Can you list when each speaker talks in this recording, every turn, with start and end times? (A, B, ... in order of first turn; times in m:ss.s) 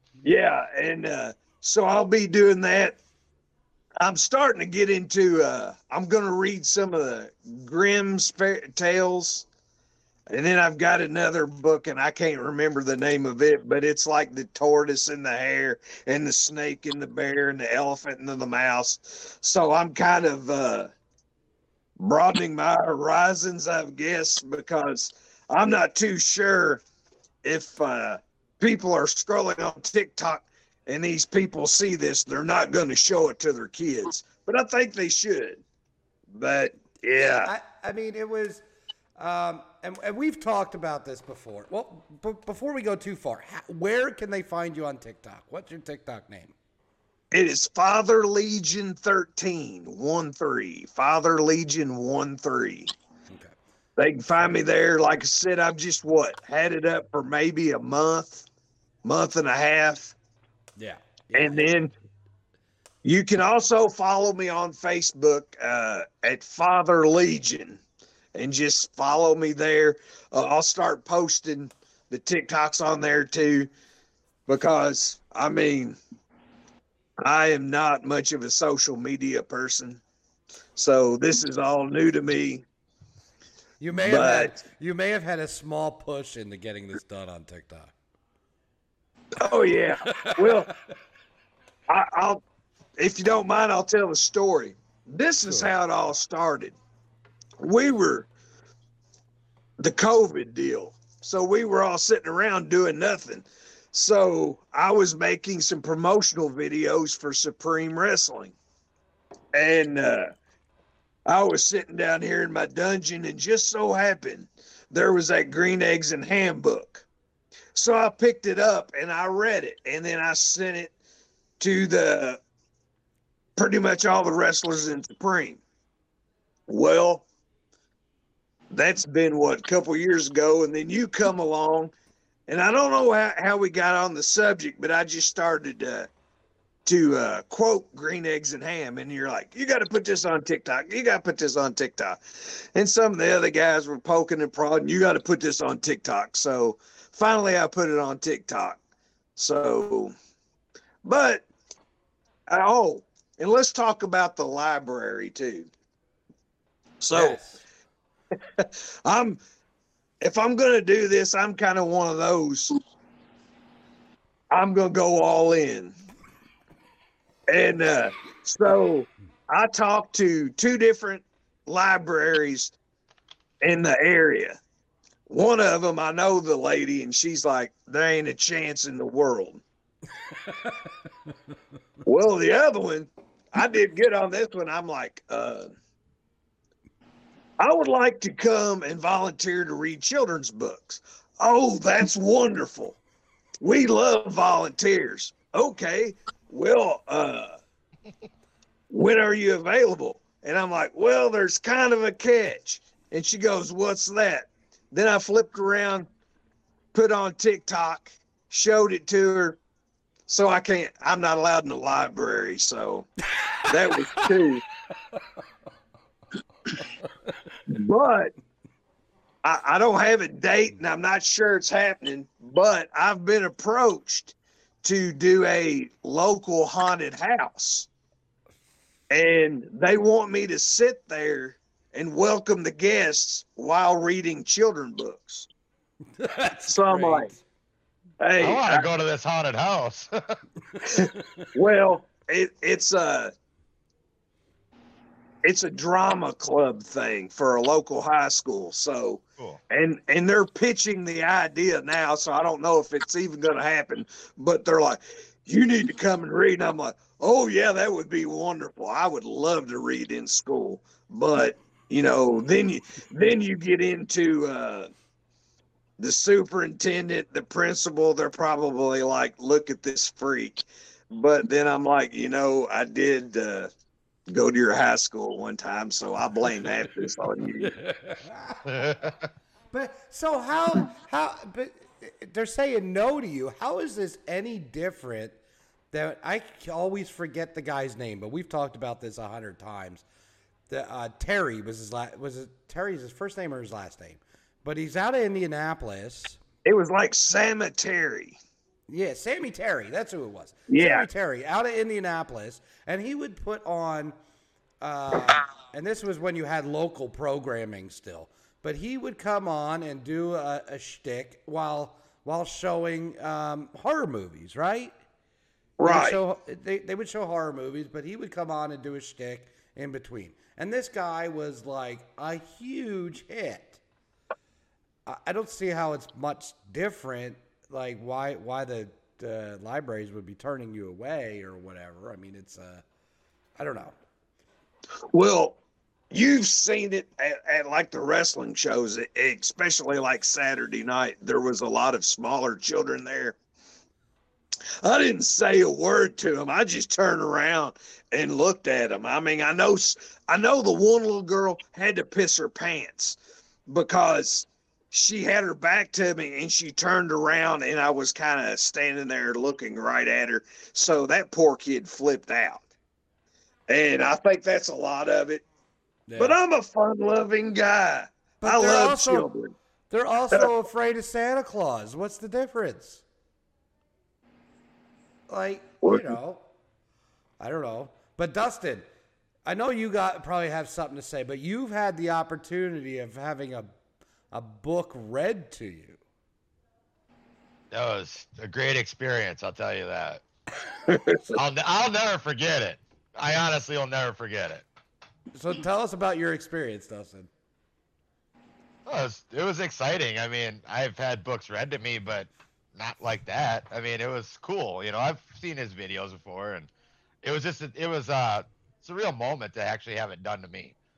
0:00.2-0:03.0 A
0:04.0-0:09.5 A
0:10.3-0:20.9 A
0:22.0-0:26.8 A
0:27.4-0:35.6 A
0:36.3-0:37.5 A
0:37.4-0:38.6 B
0:39.2-0:46.6 B
0:47.3-0:52.9 A
0:53.3-0:53.5 B
0:54.0-0:58.4 A
0:59.0-1:00.1 A
1:00.8-1:01.8 B
1:01.3-1:01.9 A
1:03.0-1:07.8 A
1:08.4-1:13.7 A
1:14.5-1:16.0 A
1:17.2-1:20.0 A
1:20.8-1:22.6 A
1:23.8-1:27.9 B
1:24.0-1:24.6 A
1:29.4-1:30.7 A
1:30.0-1:30.8 B
1:31.9-1:32.4 A
1:33.0-1:36.8 A
1:35.5-1:35.7 B
1:37.6-1:38.3 A
1:39.8-1:48.6 A
1:49.5-1:50.3 A
1:51.3-1:57.0 A
1:57.8-2:00.9 A
2:01.6-2:02.4 A
2:03.6-2:05.6 A
2:06.7-2:07.2 A
2:08.7-2:11.9 A
2:12.5-2:16.1 A
2:16.8-2:22.2 A
2:22.8-2:28.8 A
2:29.4-2:30.1 A
2:31.0-2:31.5 A
2:32.5-2:35.7 A
2:37.0-2:37.4 A
2:37.1-2:37.6 B
2:38.6-2:39.4 A
2:40.2-2:42.8 A
2:44.5-2:46.0 A
2:47.5-2:52.7 A
2:53.6-2:54.6 A
2:55.3-2:59.6 A
3:00.5-3:00.8 B
3:02.0-3:05.7 A
3:07.6-3:13.0 A
3:13.6-3:17.6 A
3:18.9-3:26.1 A
3:26.9-3:29.6 A
3:30.3-3:33.1 A
3:33.4-3:34.4 B
3:33.7-3:34.6 A
3:36.8-3:37.6 B
3:37.7-3:38.3 A
3:39.4-3:47.9 A
3:49.1-3:55.5 A
3:56.2-3:57.4 B
3:56.7-3:57.3 A
3:58.2-3:58.8 A
3:58.4-4:00.4 C
4:00.8-4:01.5 B
4:00.9-4:03.3 A
4:05.4-4:24.9 A
4:26.0-4:33.7 A
4:34.3-4:37.8 A
4:37.6-4:38.7 B
4:38.6-4:39.2 C
4:39.7-4:45.4 B
4:45.9-4:50.0 B
4:50.7-4:56.4 B
4:56.6-4:58.4 A
4:58.9-5:04.2 B
5:00.7-5:01.1 A
5:04.8-5:14.9 B
5:15.8-5:16.2 A
5:15.8-5:23.8 B
5:25.1-5:32.8 B
5:33.6-5:34.0 B
5:35.1-5:35.6 A
5:36.1-5:43.4 A
5:44.8-6:02.7 A
6:03.7-6:05.4 A
6:06.1-6:06.4 B
6:06.2-6:09.5 A
6:08.4-6:09.3 B
6:09.9-6:13.0 B
6:15.3-6:16.4 B
6:15.8-6:16.2 A
6:17.4-6:18.9 B
6:19.5-6:23.7 B
6:24.3-6:26.0 B
6:27.7-6:30.2 C
6:30.9-6:31.2 A
6:31.3-6:34.6 C
6:35.4-6:37.3 B
6:38.9-6:46.7 C
6:47.2-6:50.8 C